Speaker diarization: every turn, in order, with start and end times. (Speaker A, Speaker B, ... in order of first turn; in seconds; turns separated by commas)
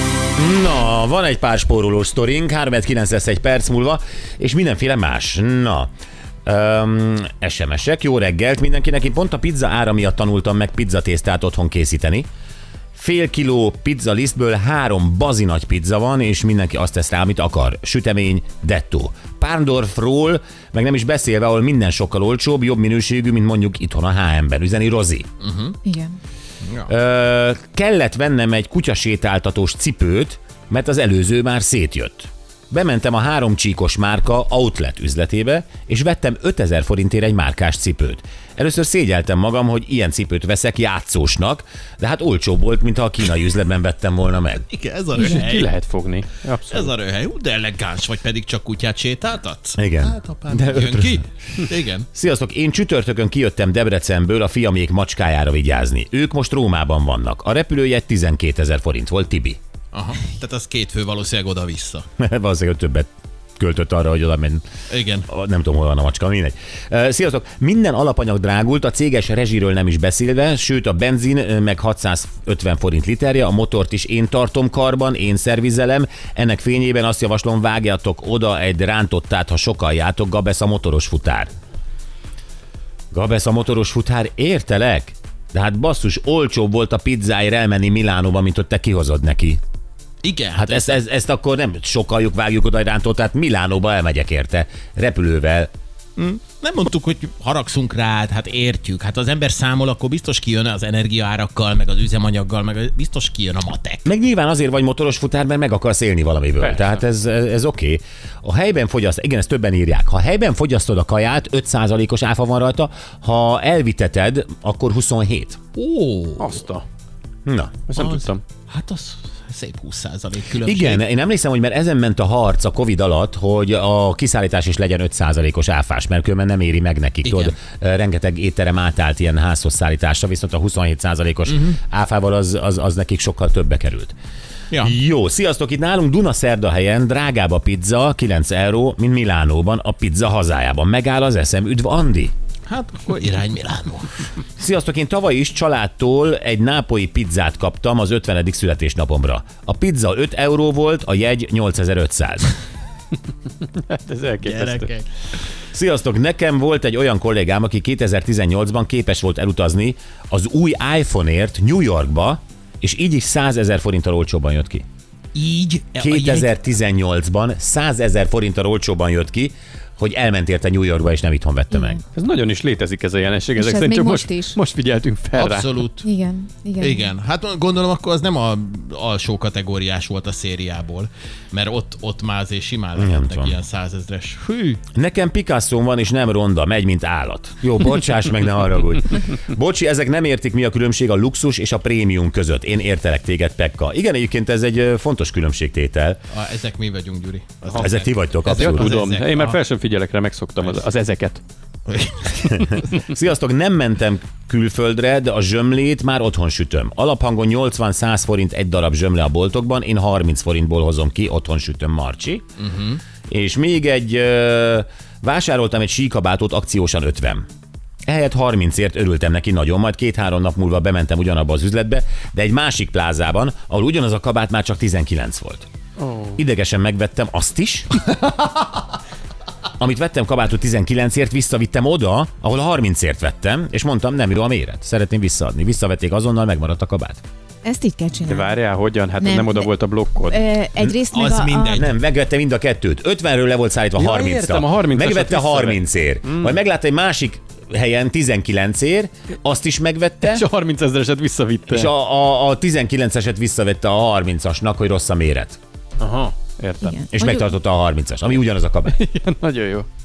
Speaker A: 0.4-5.9, Speaker A: 6.5-12.3, Speaker A: 12.9-25.3, Speaker B: 25.4-25.8, Speaker C: 25.9-26.1, Speaker B: 26.6-26.9, Speaker A: 26.9-44.6, Speaker B: 44.7-45.7, Speaker D: 45.2-46.9, Speaker B: 46.7-52.1, Speaker A: 49.8-51.2, Speaker A: 52.1-59.6, Speaker B: 59.9-62.0, Speaker A: 62.2-64.6, Speaker B: 64.9-65.3, Speaker A: 65.3-81.5, Speaker A: 83.1-89.6, Speaker B: 90.2-91.0, Speaker A: 90.6-95.7, Speaker B: 96.2-104.0, Speaker A: 104.1-115.6, Speaker B: 115.8-116.6, Speaker D: 116.4-116.8, Speaker A: 117.5-117.7, Speaker D: 117.9-118.4, Speaker B: 117.9-121.0, Speaker A: 120.6-134.2, Speaker B: 127.2-127.5, Speaker B: 131.5-131.7, Speaker A: 134.8-142.3, Speaker B: 142.7-144.1, Speaker A: 144.6-152.5, Speaker D: 153.6-154.9, Speaker B: 154.4-155.1, Speaker A: 155.7-164.8, Speaker B: 165.3-166.5, Speaker A: 166.0-172.0, Speaker C: 171.7-172.0, Speaker D: 172.2-175.8, Speaker C: 173.6-174.6, Speaker B: 175.3-176.1, Speaker C: 176.0-177.1, Speaker B: 176.8-184.8, Speaker A: 183.0-183.6, Speaker A: 184.9-196.2, Speaker B: 196.3-199.6, Speaker A: 197.8-198.9, Speaker D: 198.5-201.4, Speaker B: 201.9-202.7, Speaker A: 202.6-212.4, Speaker B: 212.6-213.0, Speaker A: 213.3-217.4, Speaker A: 218.1-225.7, Speaker D: 226.0-226.3, Speaker A: 226.4-228.2, Speaker A: 229.8-237.2, Speaker C: 237.6-238.6, Speaker D: 238.3-240.4, Speaker C: 239.2-241.9, Speaker B: 240.9-241.9, Speaker A: 241.8-250.4, Speaker D: 244.0-246.5, Speaker D: 250.2-251.9, Speaker A: 251.7-255.6, Speaker D: 256.0-257.0, Speaker C: 256.8-257.5, Speaker A: 257.1-258.9, Speaker D: 258.9-259.9